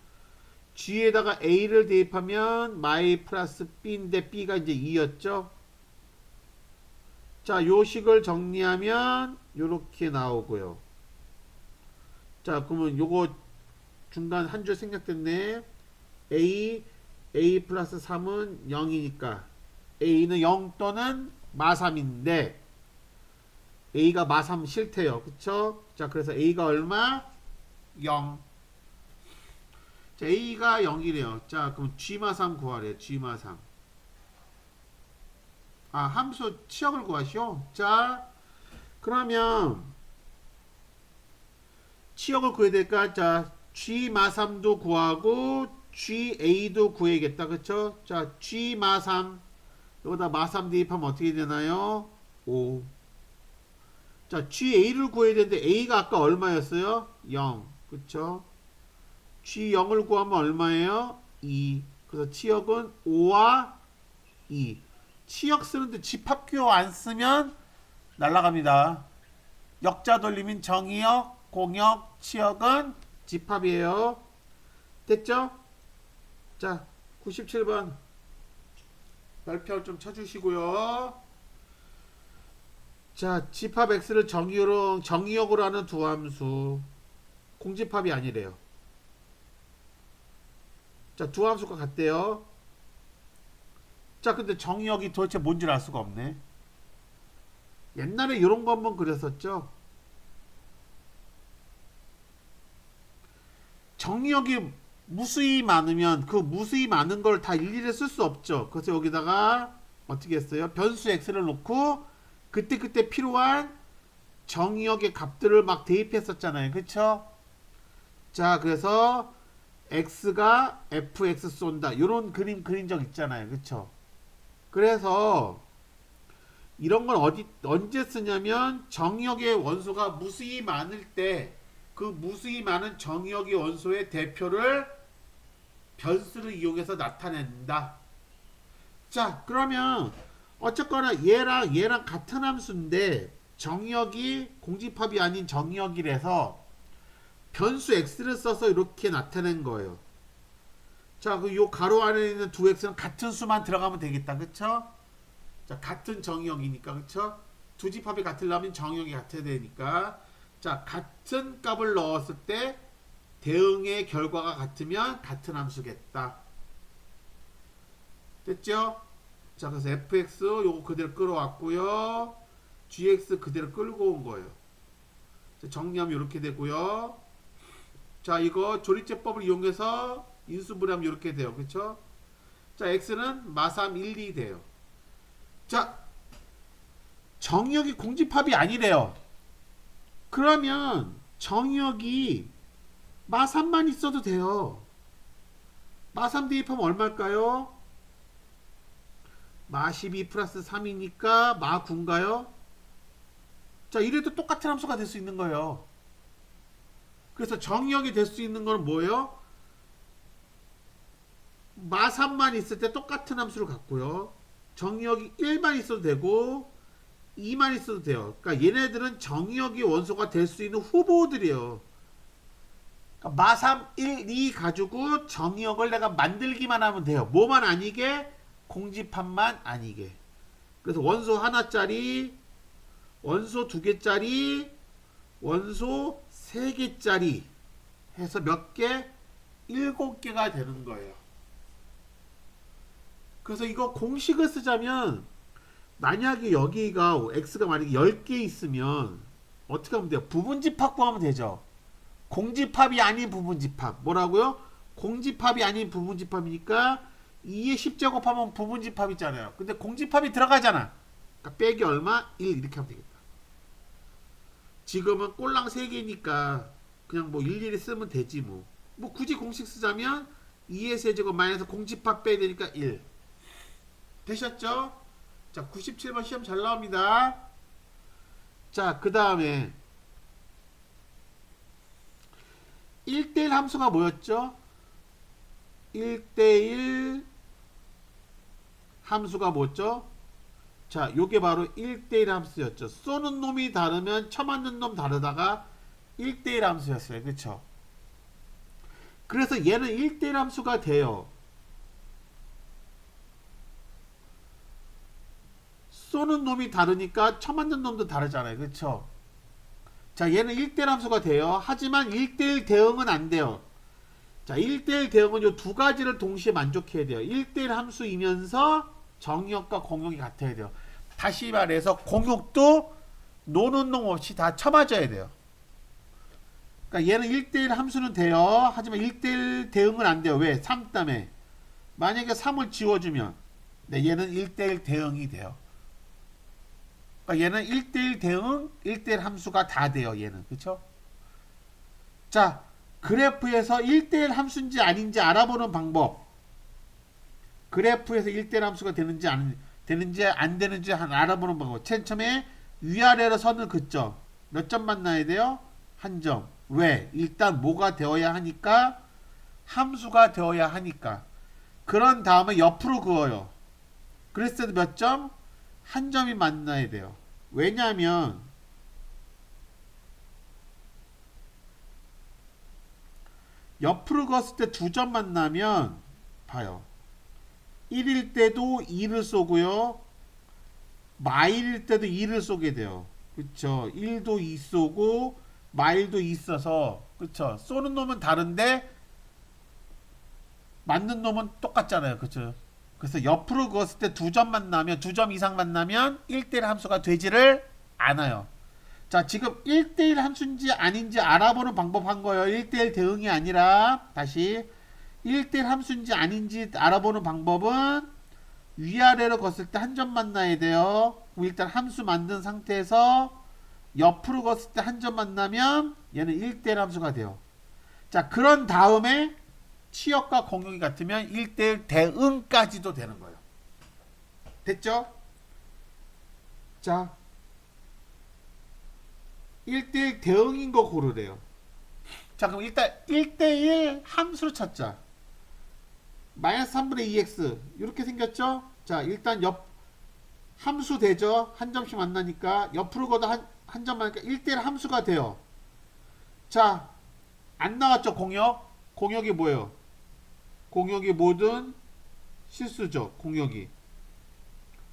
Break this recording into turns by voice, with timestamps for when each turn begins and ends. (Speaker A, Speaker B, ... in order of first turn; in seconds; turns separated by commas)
Speaker A: 0.7-5.5, Speaker A: 7.4-10.8, Speaker A: 12.4-13.4, Speaker A: 14.1-15.7, Speaker A: 16.3-19.5, Speaker A: 20.0-22.6, Speaker A: 23.9-27.3, Speaker A: 27.9-28.4, Speaker A: 30.1-33.6, Speaker A: 35.9-38.3, Speaker A: 39.0-39.9, Speaker A: 42.1-49.4, Speaker A: 50.0-52.9, Speaker A: 54.3-58.5, Speaker A: 59.4-63.8, Speaker A: 64.5-67.5, Speaker A: 68.2-69.1, Speaker A: 69.8-74.2, Speaker A: 75.0-75.6, Speaker A: 76.6-78.0, Speaker A: 79.4-81.2, Speaker A: 83.1-86.9, Speaker A: 87.6-88.6, Speaker A: 91.2-92.5, Speaker A: 94.2-96.4, Speaker A: 97.9-99.7, Speaker A: 104.0-113.7, Speaker A: 114.5-117.3, Speaker A: 118.3-119.3, Speaker A: 119.9-123.9, Speaker A: 124.7-125.6, Speaker A: 126.8-134.9, Speaker A: 136.0-138.0, Speaker A: 139.1-146.6, Speaker A: 147.5-150.0, Speaker A: 151.2-154.9, Speaker A: 155.7-162.8, Speaker A: 163.4-166.4, Speaker A: 168.4-169.0, Speaker A: 169.6-174.6, Speaker A: 175.6-177.2, Speaker A: 178.2-182.0, Speaker A: 182.8-184.7, Speaker A: 185.7-186.0, Speaker A: 187.4-189.2, Speaker A: 190.3-192.5, Speaker A: 193.3-194.9, Speaker A: 196.1-197.8, Speaker A: 199.7-202.5, Speaker A: 203.9-205.9, Speaker A: 207.3-209.4, Speaker A: 211.7-216.7, Speaker A: 217.3-221.8, Speaker A: 223.2-230.2, Speaker A: 230.8-232.4, Speaker A: 233.2-234.7, Speaker A: 235.4-237.5, Speaker A: 238.1-239.1, Speaker A: 239.7-241.2, Speaker A: 243.4-245.3, Speaker A: 246.0-251.6, Speaker A: 252.3-263.2, Speaker A: 264.8-273.0, Speaker A: 274.2-277.4, Speaker A: 278.7-279.8, Speaker A: 283.1-284.6, Speaker A: 285.9-287.3, Speaker A: 289.0-290.1, Speaker A: 290.9-295.7, Speaker A: 296.2-297.6, Speaker A: 299.3-301.3, Speaker A: 305.9-309.1, Speaker A: 310.1-313.6, Speaker A: 314.4-322.9, Speaker A: 323.4-325.3, Speaker A: 326.9-331.3, Speaker A: 332.0-335.6, Speaker A: 337.2-340.8, Speaker A: 342.3-346.2, Speaker A: 347.7-359.0, Speaker A: 359.6-361.2, Speaker A: 361.9-363.5, Speaker A: 364.3-368.5, Speaker A: 373.8-376.9, Speaker A: 377.9-380.0, Speaker A: 381.2-388.9, Speaker A: 390.8-398.5, Speaker A: 399.1-404.7, Speaker A: 405.2-408.1, Speaker A: 408.8-413.4, Speaker A: 413.9-417.4, Speaker A: 418.1-419.3, Speaker A: 419.9-423.4, Speaker A: 424.6-425.1, Speaker A: 426.8-427.1, Speaker A: 429.6-431.4, Speaker A: 432.4-435.0, Speaker A: 436.3-439.7, Speaker A: 440.6-445.4, Speaker A: 446.5-446.9, Speaker A: 447.6-449.8, Speaker A: 450.7-451.8, Speaker A: 452.5-453.7